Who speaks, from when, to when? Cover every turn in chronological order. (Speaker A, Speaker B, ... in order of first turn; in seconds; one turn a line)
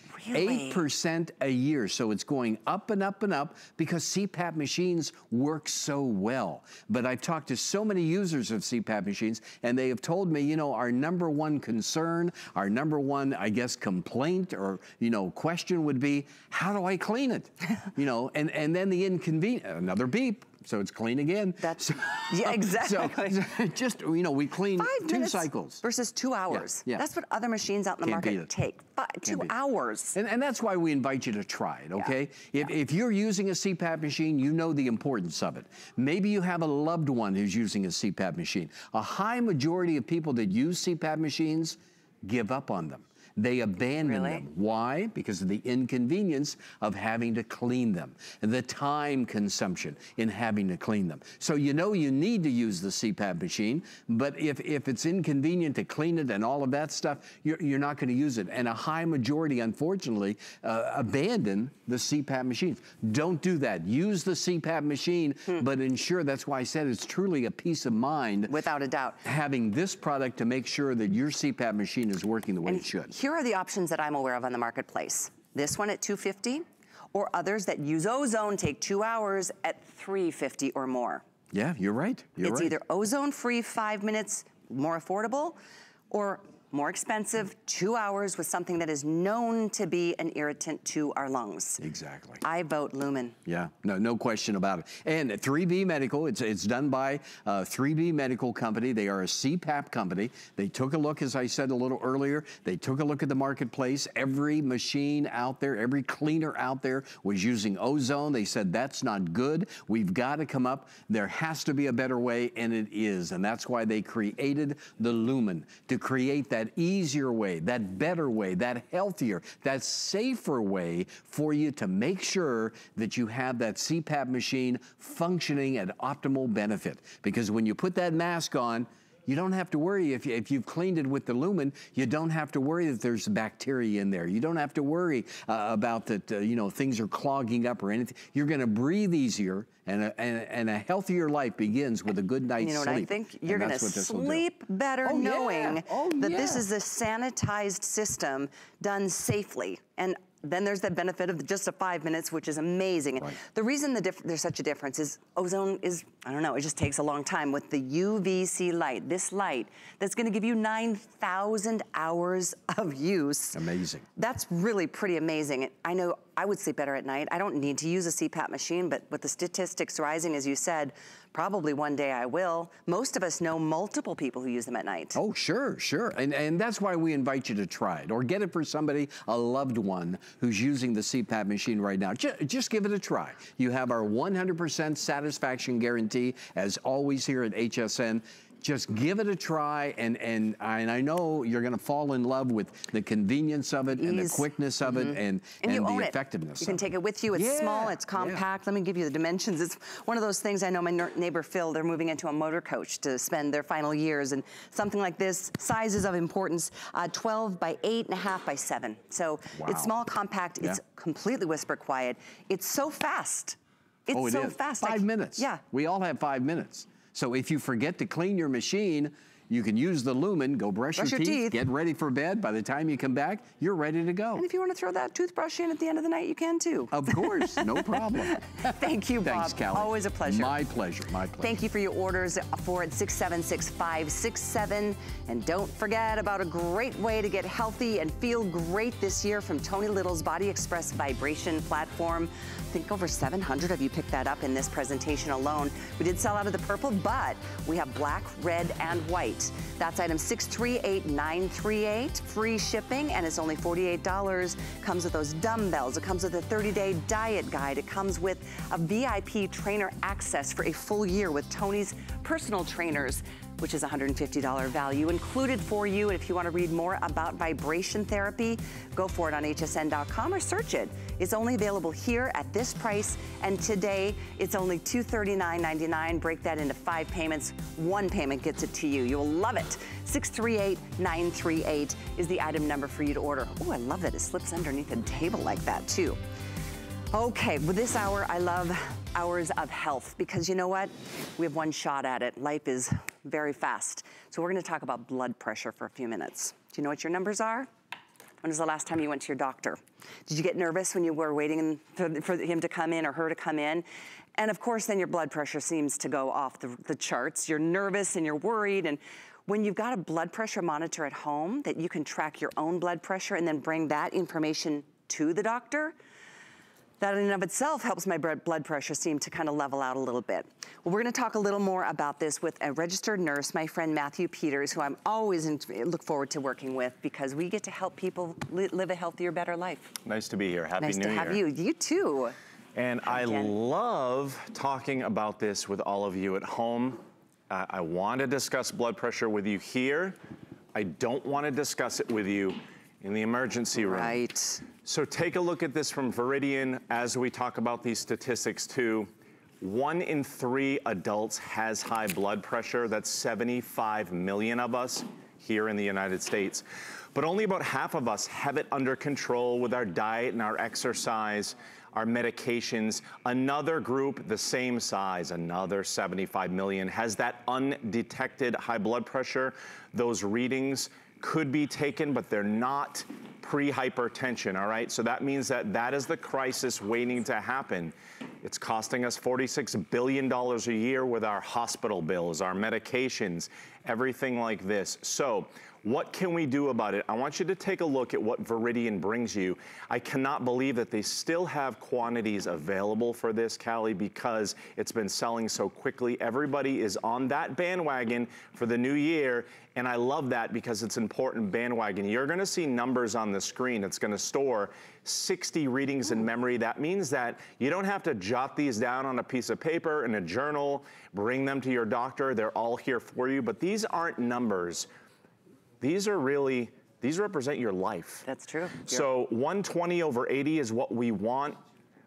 Speaker A: 0.1-0.9
Speaker B: 0.3-25.8
Speaker A: 21.6-23.5
Speaker A: 24.8-30.2
Speaker B: 26.5-27.1
Speaker B: 28.0-28.5
Speaker B: 29.2-29.5
Speaker B: 30.1-68.5
Speaker A: 32.0-32.7
Speaker A: 44.0-44.5
Speaker A: 68.5-69.2
Speaker B: 69.2-73.1
Speaker A: 72.7-81.2
Speaker B: 81.5-82.8
Speaker A: 82.4-85.6
Speaker A: 86.1-91.8
Speaker B: 91.8-92.4
Speaker A: 92.4-93.4
Speaker B: 93.5-144.5
Speaker A: 142.6-163.6
Speaker B: 145.0-146.7
Speaker B: 163.5-164.1
Speaker A: 164.2-175.2
Speaker B: 175.1-198.4
Speaker A: 193.9-215.6
Speaker B: 209.6-209.9
Speaker B: 214.1-224.5
Speaker A: 221.0-221.6
Speaker A: 224.4-230.6
Speaker B: 226.9-231.6
Speaker A: 231.4-286.2
Speaker A: 287.1-297.7
Speaker A: 298.4-303.9
Speaker A: 304.4-315.9
Speaker A: 317.0-329.9
Speaker C: 330.1-331.4
Speaker A: 330.8-332.4
Speaker C: 332.8-340.2
Speaker A: 333.1-333.5
Speaker C: 340.7-344.2
Speaker A: 343.8-344.6
Speaker C: 344.8-349.1
Speaker C: 349.6-414.9
Speaker C: 415.8-418.2
Speaker A: 418.3-419.1
Speaker C: 418.9-421.6